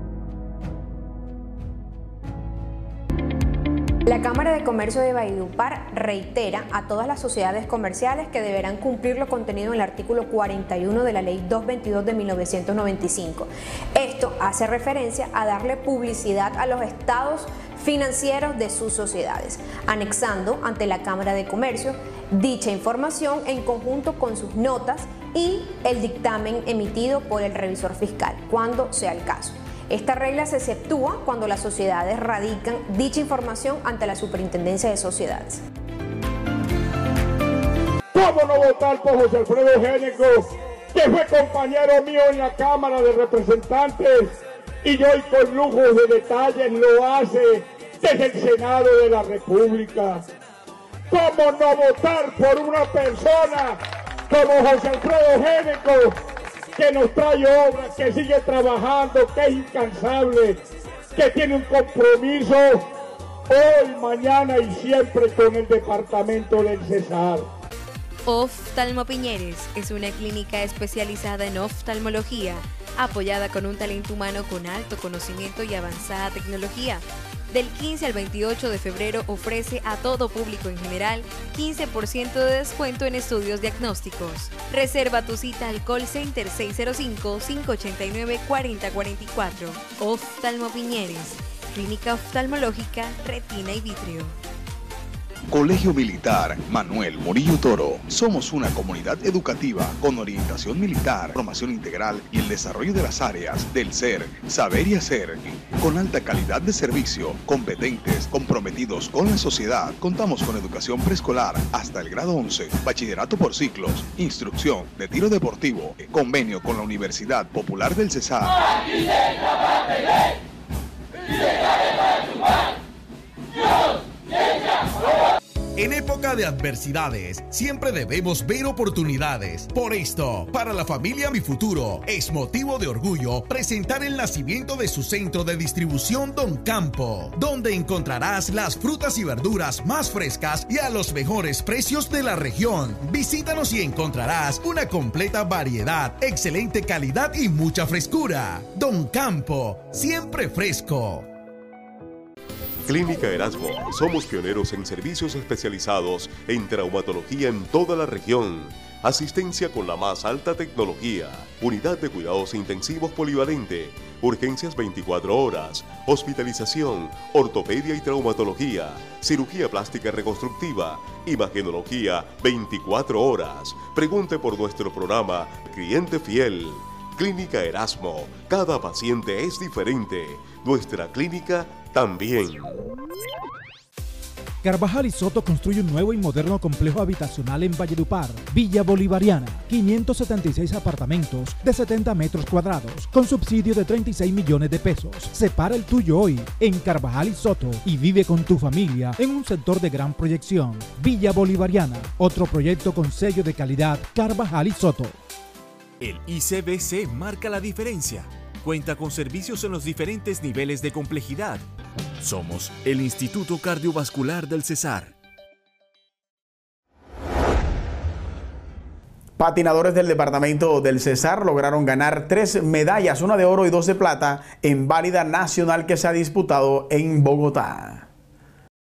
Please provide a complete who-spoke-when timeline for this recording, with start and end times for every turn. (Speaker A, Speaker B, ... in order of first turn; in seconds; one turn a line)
Speaker A: 4.1-35.6
Speaker B: 38.1-50.2
Speaker B: 51.1-56.2
Speaker B: 56.8-60.6
Speaker B: 61.2-62.9
Speaker B: 63.5-67.5
Speaker C: 68.3-94.4
Speaker D: 95.5-118.6
Speaker E: 125.8-151.3
Speaker F: 152.9-182.8
Speaker G: 184.6-205.2
Speaker H: 206.0-211.6
Speaker H: 212.2-215.1
Speaker I: 219.4-228.1